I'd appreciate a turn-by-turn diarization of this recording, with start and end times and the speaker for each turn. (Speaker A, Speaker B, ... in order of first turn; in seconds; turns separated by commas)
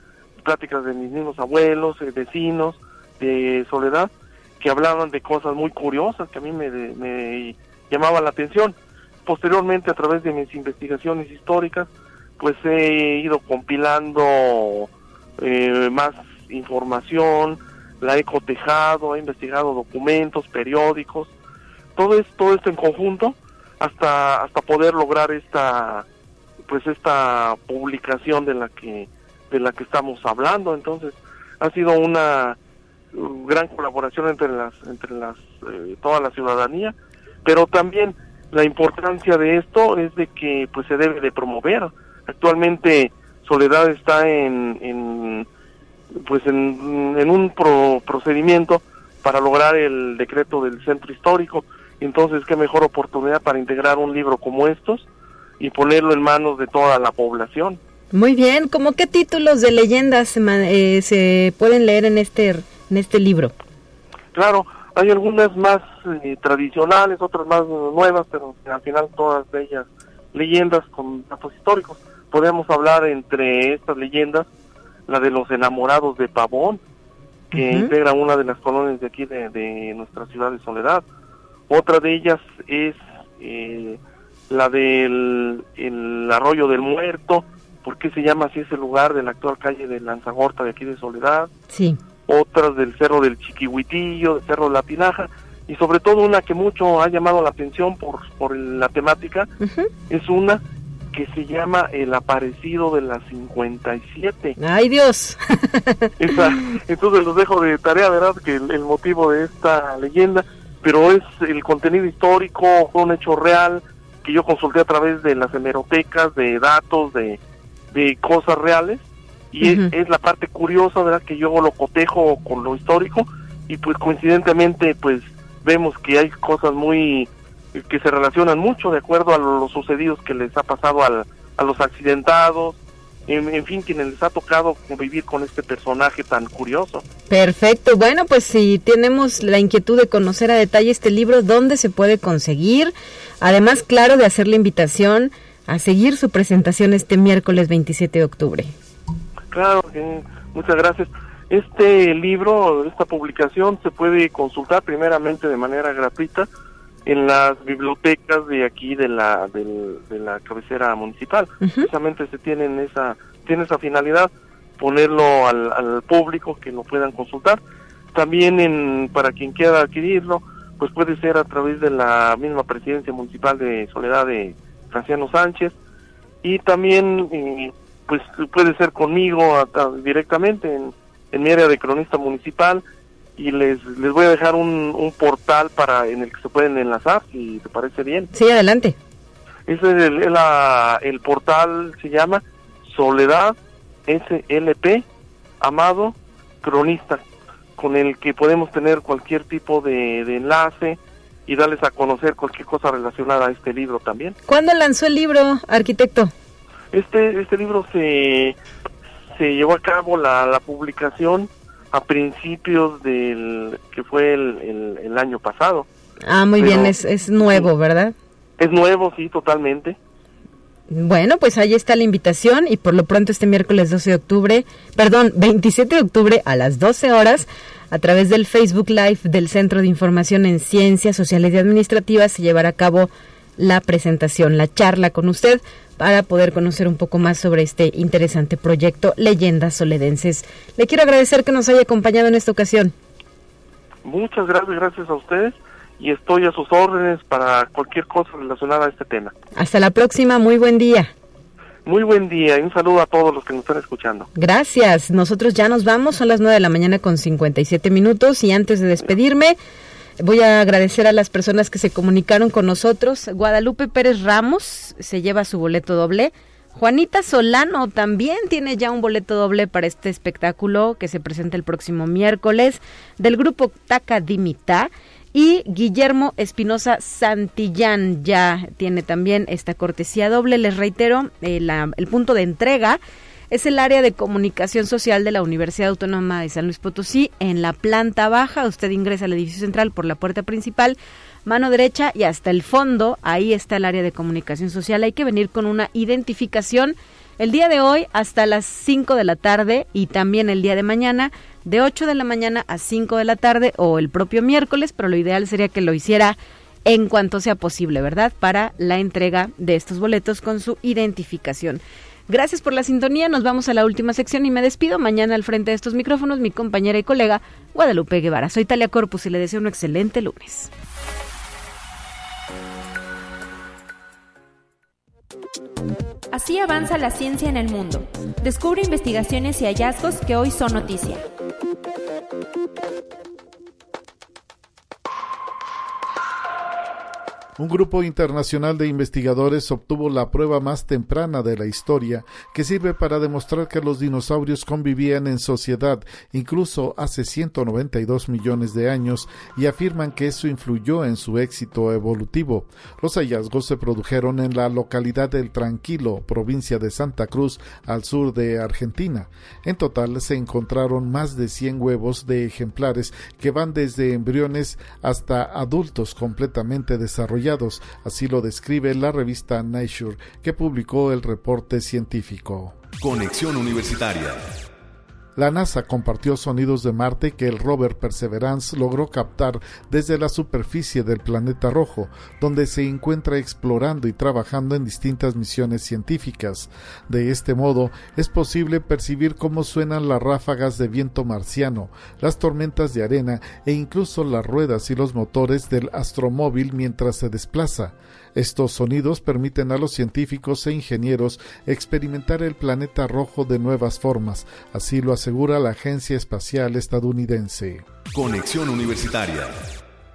Speaker A: 0.4-21.3, Speaker A: 22.0-26.1, Speaker A: 26.7-32.6, Speaker A: 33.1-45.5, Speaker A: 46.1-55.1, Speaker A: 55.6-57.8, Speaker B: 58.1-63.5, Speaker A: 64.3-74.5, Speaker A: 75.1-76.8, Speaker B: 77.5-77.9, Speaker A: 77.5-81.0, Speaker A: 81.7-91.5, Speaker B: 91.7-92.0, Speaker A: 92.3-99.5, Speaker B: 99.6-99.9, Speaker A: 100.1-104.6, Speaker B: 104.6-106.6, Speaker A: 106.2-117.4, Speaker A: 117.9-137.1, Speaker B: 119.6-119.9, Speaker B: 137.3-148.7, Speaker A: 149.5-156.5, Speaker A: 157.1-167.6, Speaker B: 161.6-161.9, Speaker A: 168.1-175.8, Speaker A: 176.4-182.8, Speaker A: 183.4-188.3, Speaker B: 188.3-189.0, Speaker A: 189.7-195.1, Speaker A: 195.6-197.2, Speaker A: 197.8-204.4, Speaker B: 204.5-206.3, Speaker A: 206.9-208.6, Speaker A: 209.3-215.9, Speaker B: 216.2-218.2, Speaker A: 216.6-216.9, Speaker A: 218.6-220.0, Speaker B: 220.9-242.9, Speaker A: 244.0-249.3, Speaker B: 249.6-251.1, Speaker A: 251.8-254.3, Speaker B: 254.3-259.6, Speaker B: 260.2-320.7, Speaker C: 326.3-331.2, Speaker D: 337.6-372.8, Speaker E: 373.0-374.5, Speaker D: 375.4-407.9, Speaker E: 408.1-409.7